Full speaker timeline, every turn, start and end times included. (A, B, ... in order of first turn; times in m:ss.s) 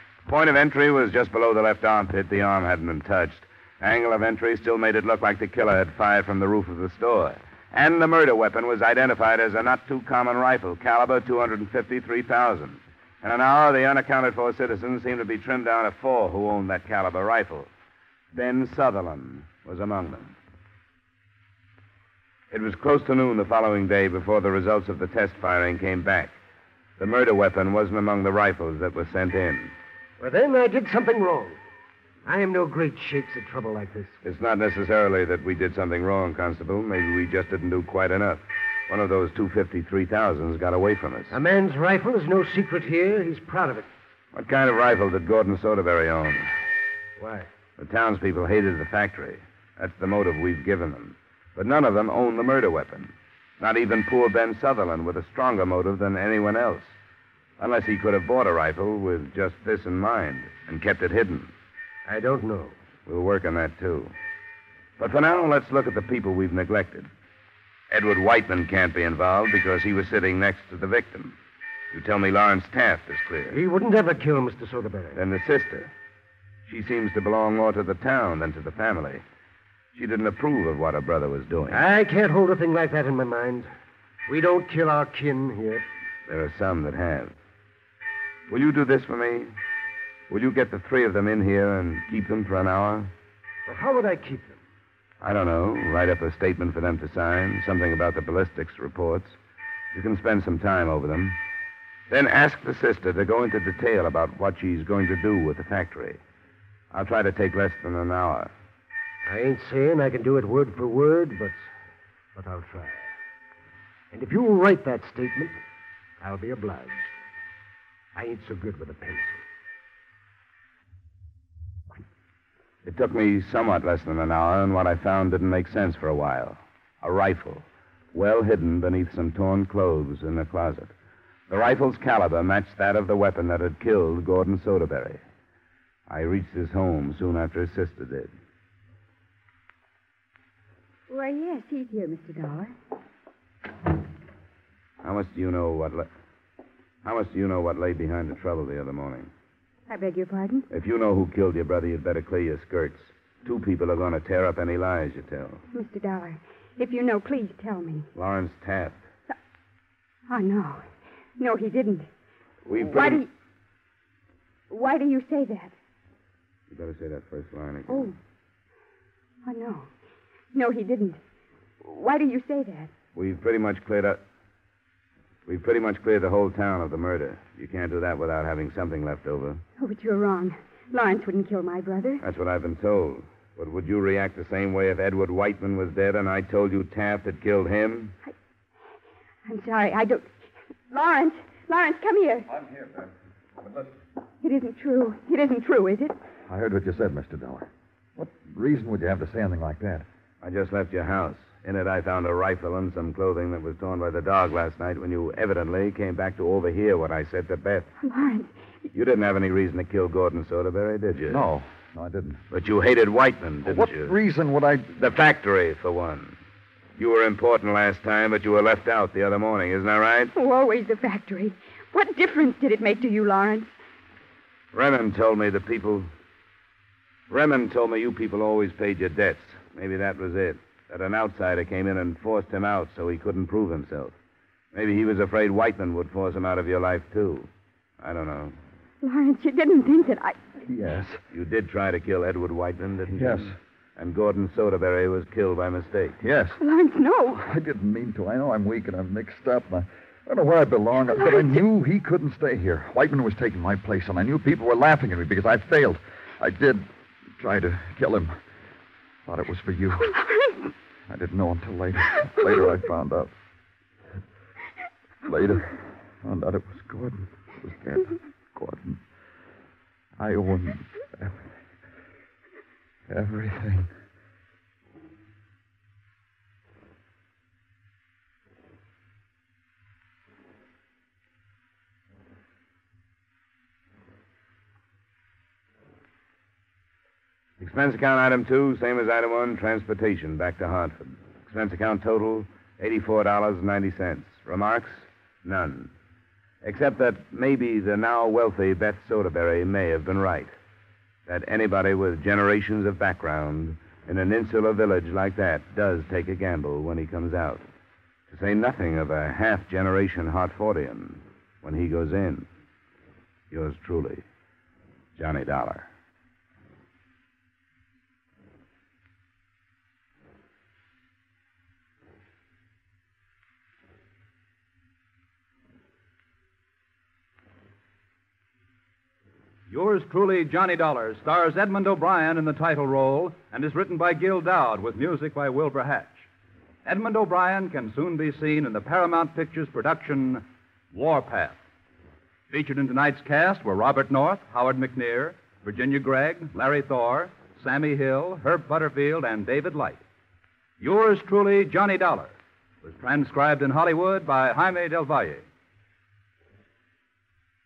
0:00.3-0:17.7 A
0:18.3-0:20.3 A
0:22.5-0:26.4 A
0:27.0-0:29.7 A
0:30.2-0:31.6 B
0:32.2-0:34.2 B
0:34.2-0:41.4 A
0:41.3-0:43.9 B
0:44.3-0:46.5 A
0:47.2-0:47.5 B
0:47.8-0:56.9 A
0:57.6-1:01.5 A
1:02.1-1:02.8 B
1:03.1-1:04.1 A
1:05.0-1:07.1 A
1:07.9-1:11.4 A
1:11.9-1:13.6 A
1:13.5-1:15.2 B
1:15.2-1:15.9 A
1:16.7-1:19.2 A
1:19.9-1:21.8 A
1:21.7-1:23.7 B
1:24.3-1:25.8 B
1:26.3-1:27.3 A
1:28.5-1:29.5 A
1:30.3-1:33.1 A
1:33.7-1:34.6 B
1:35.2-1:39.4 A
1:39.9-1:41.4 A
1:42.1-1:46.2 A
1:46.9-1:48.5 A
1:49.2-1:51.7 B
1:52.4-1:53.1 B
1:54.1-1:55.6 B
1:56.2-1:57.1 B
1:58.2-1:59.4 B
2:02.8-2:10.9 A
2:11.5-2:15.2 A
2:16.1-2:18.3 A
2:21.1-2:22.7 C
2:25.0-2:26.1 A
2:27.0-2:29.3 A
2:29.9-2:30.7 C
2:30.7-2:35.6 A
2:35.7-2:38.1 C
2:38.2-2:39.0 A
2:40.3-2:40.9 C
2:41.4-2:42.1 C
2:42.7-2:43.2 A
2:42.7-2:43.3 C
2:44.7-2:45.8 C
2:46.7-2:48.1 A
2:47.9-2:48.2 C
2:49.4-2:49.9 C
2:50.5-2:51.2 C
2:51.8-2:52.9 C
2:53.2-2:54.2 A
2:55.5-2:59.6 A
2:59.8-3:02.2 C
3:02.2-3:08.2 A
3:09.5-3:10.3 C
3:10.9-3:12.5 C
3:12.5-3:13.9 D
3:14.4-3:16.2 C
3:16.5-3:20.1 D
3:20.4-3:27.9 A
3:28.0-3:28.5 C
3:28.9-3:31.4 A
3:31.3-3:32.4 D
3:32.5-3:34.2 A
3:33.6-3:35.0 D
3:35.0-3:36.4 A
3:37.0-3:40.3 A
3:40.3-3:43.7 C
3:44.7-3:46.1 A
3:47.3-3:54.2 A
3:54.7-3:57.5 A
3:58.0-3:58.6 A
3:59.0-4:00.4 C
4:00.6-4:01.2 D
4:01.3-4:06.2 A
4:03.1-4:03.6 D
4:06.2-4:06.6 D
4:06.6-4:07.4 C
4:07.4-4:18.4 D
4:19.2-4:20.2 D
4:21.1-4:23.3 D
4:25.2-4:29.0 D
4:30.2-4:31.5 D
4:33.1-4:33.9 D
4:47.6-4:55.9 A
4:56.6-5:00.5 A
5:01.3-5:07.6 A
5:08.3-5:12.5 A
5:13.5-5:14.2 A
5:15.2-5:15.9 A
5:29.7-5:36.3 E
5:36.8-5:41.6 E
5:42.5-5:50.0 E
5:50.8-5:55.4 E